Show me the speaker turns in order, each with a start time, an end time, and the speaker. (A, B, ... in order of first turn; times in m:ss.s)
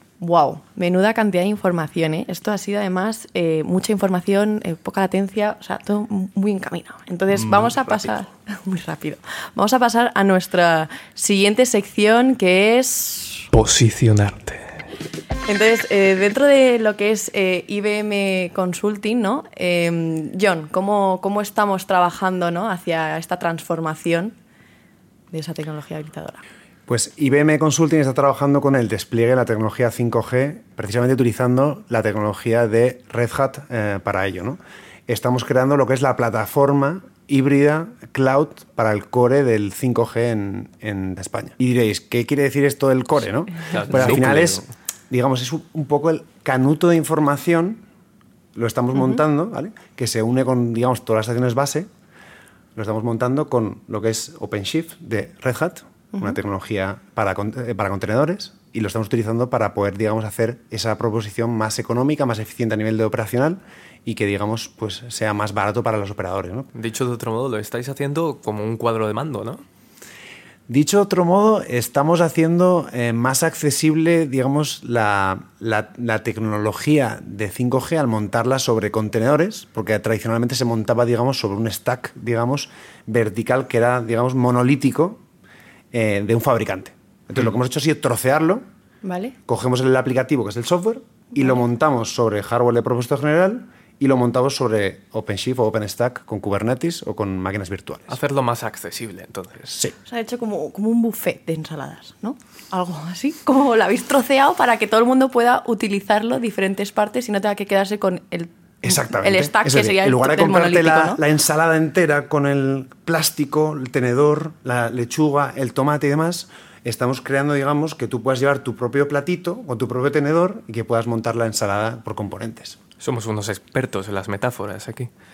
0:00.2-0:13.5 A
0:07.4-0:08.0 B
0:13.5-0:14.8 B
0:15.4-0:24.3 A
0:25.3-0:26.4 A
0:26.9-0:47.8 C
0:43.7-0:44.6 B
0:48.5-0:51.9 C
0:52.7-1:06.7 C
1:06.7-1:09.6 B
1:10.7-1:25.2 C
1:25.9-1:28.6 C
1:29.0-1:29.4 A
1:29.4-1:38.2 C
1:38.1-1:39.8 B
1:40.0-1:51.2 A
1:48.8-2:02.8 C
2:03.0-2:05.1 B